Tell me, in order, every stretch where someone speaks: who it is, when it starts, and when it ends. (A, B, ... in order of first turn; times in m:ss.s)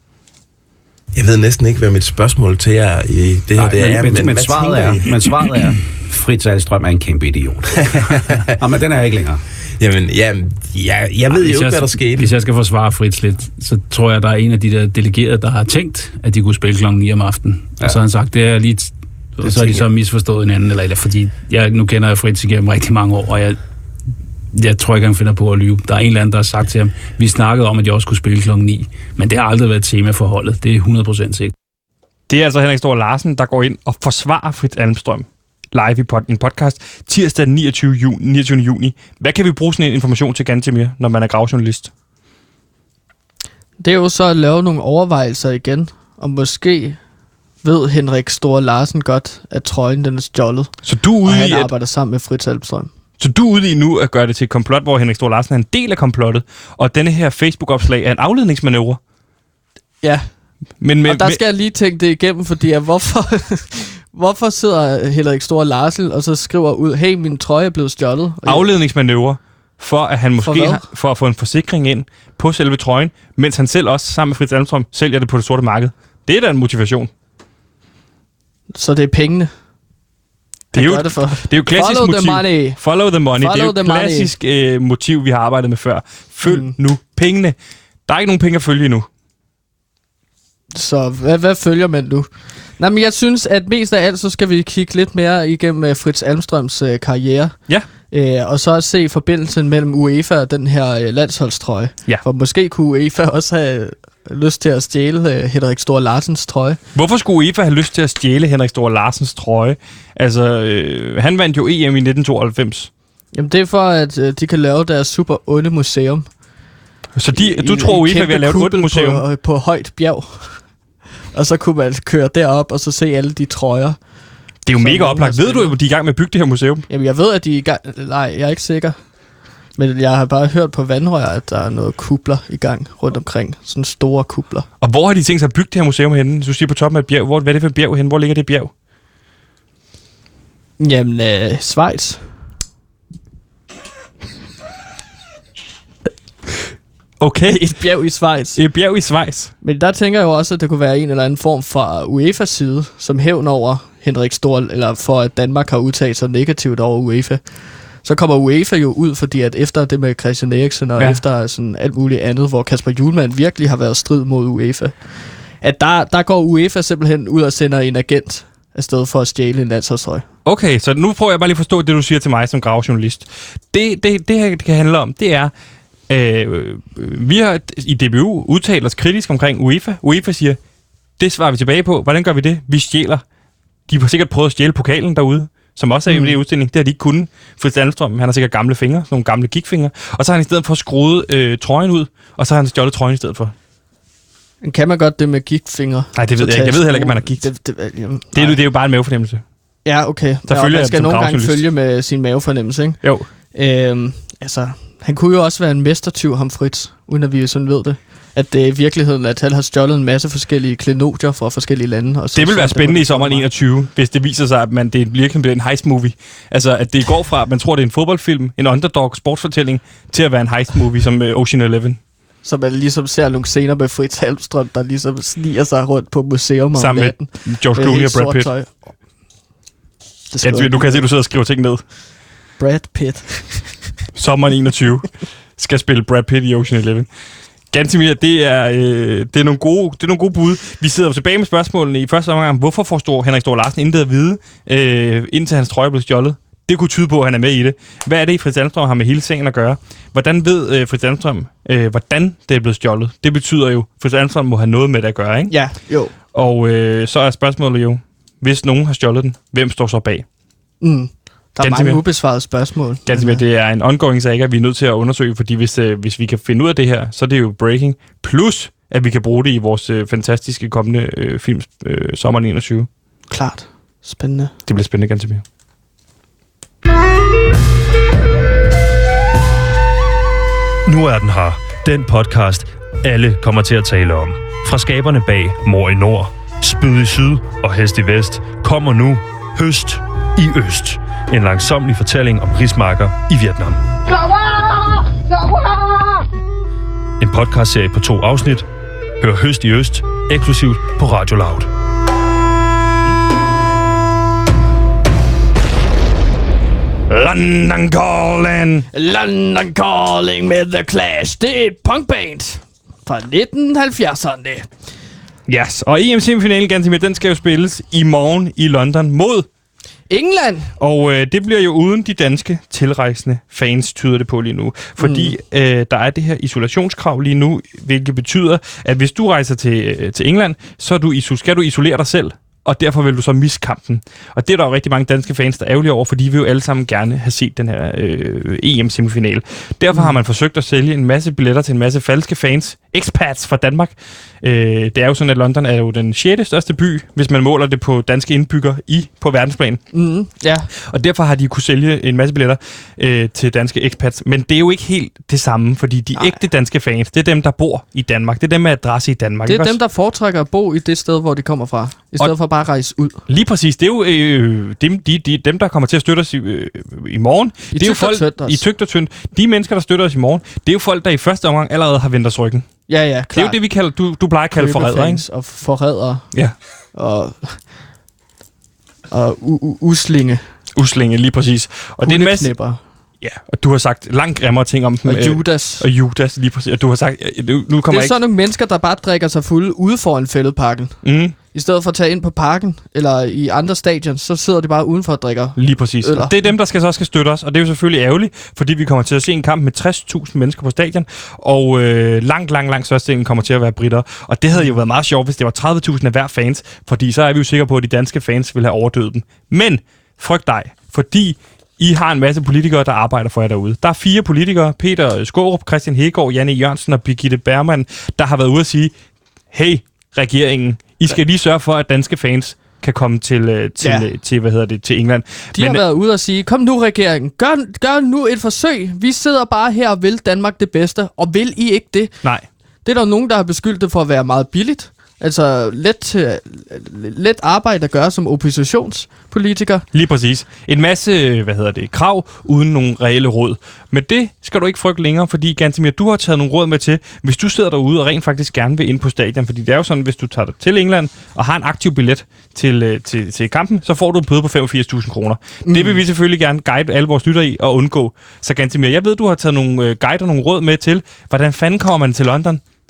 0:01.1-0:05.6 A
0:03.6-0:09.4 B
0:09.8-0:11.7 A
0:10.7-0:12.3 B
0:11.3-0:23.6 C
0:24.5-0:31.5 C
0:32.3-0:41.9 D
0:43.8-0:47.0 E
0:47.6-0:50.7 E
0:50.8-0:51.7 D
0:51.2-0:52.9 E
0:53.2-0:59.0 D
1:00.8-1:01.4 D
1:01.0-1:08.7 E
1:08.4-1:17.1 D
1:10.4-1:10.8 E
1:18.7-1:19.5 E
1:20.7-1:22.8 E
1:20.7-1:27.6 D
1:23.4-1:24.3 E
1:26.4-1:26.7 E
1:28.1-1:29.1 D
1:30.7-1:32.3 E
1:32.8-1:37.5 E
1:38.1-1:46.8 E
1:46.9-1:52.9 D
1:53.3-1:56.3 E
1:57.2-1:59.2 D
1:57.3-2:00.6 E
2:01.3-2:04.0 E
2:04.6-2:06.9 D
2:04.8-2:05.7 E
2:06.9-2:09.0 E
2:09.8-2:14.7 E
2:14.8-2:18.7 D
2:20.8-2:22.2 E
2:27.2-2:27.6 D
2:27.4-2:28.6 E
2:28.6-2:29.5 D
2:29.6-2:37.4 E
2:38.0-2:44.9 E
2:45.6-2:50.2 E
2:50.4-2:55.5 D
2:56.1-3:00.6 D
3:01.2-3:03.2 D
3:03.9-3:13.5 D
3:06.1-3:06.4 E
3:14.6-3:18.6 E
3:16.1-3:17.5 D
3:18.3-3:19.4 D
3:19.8-3:23.0 E
3:20.5-3:21.6 D
3:23.0-3:23.3 D
3:23.5-3:33.5 E
3:32.3-3:42.0 D
3:42.4-3:48.7 E
3:46.7-3:48.5 D
3:50.3-3:51.0 E
3:50.4-3:51.8 D
3:52.6-3:53.8 E
3:54.1-3:57.1 D
3:57.7-4:15.5 D
4:15.5-4:16.1 E
4:16.3-4:20.2 D
4:20.8-4:23.4 E
4:21.6-4:22.0 D
4:23.1-4:32.9 D
4:33.3-4:34.5 E
4:34.7-4:35.4 D
4:40.8-4:53.8 F
4:57.2-4:58.6 F
4:59.2-5:01.7 F
5:07.1-5:08.9 D
5:08.9-5:14.7 E
5:15.5-5:19.5 D
5:20.1-5:20.7 E
5:20.8-5:49.8 D
5:25.0-5:25.3 E
5:49.9-5:50.7 E
5:50.7-5:59.8 D
5:56.1-5:56.4 E
5:59.4-6:03.2 E
6:03.3-6:12.7 D
6:07.7-6:08.6 E
6:12.9-6:13.6 E
6:13.3-6:15.2 D
6:14.5-6:16.2 E
6:16.9-6:17.6 E
6:19.1-6:20.4 E
6:20.7-6:22.5 D
6:22.0-6:22.8 E
6:23.2-6:28.1 D
6:25.0-6:25.8 E
6:27.9-6:30.9 E
6:31.0-6:31.4 D
6:31.5-6:36.3 E
6:35.6-6:58.9 D
6:59.5-7:05.8 D
7:03.8-7:04.1 E
7:05.5-7:12.1 E
7:12.8-7:19.8 E
7:19.9-7:42.6 D
7:35.6-7:36.0 E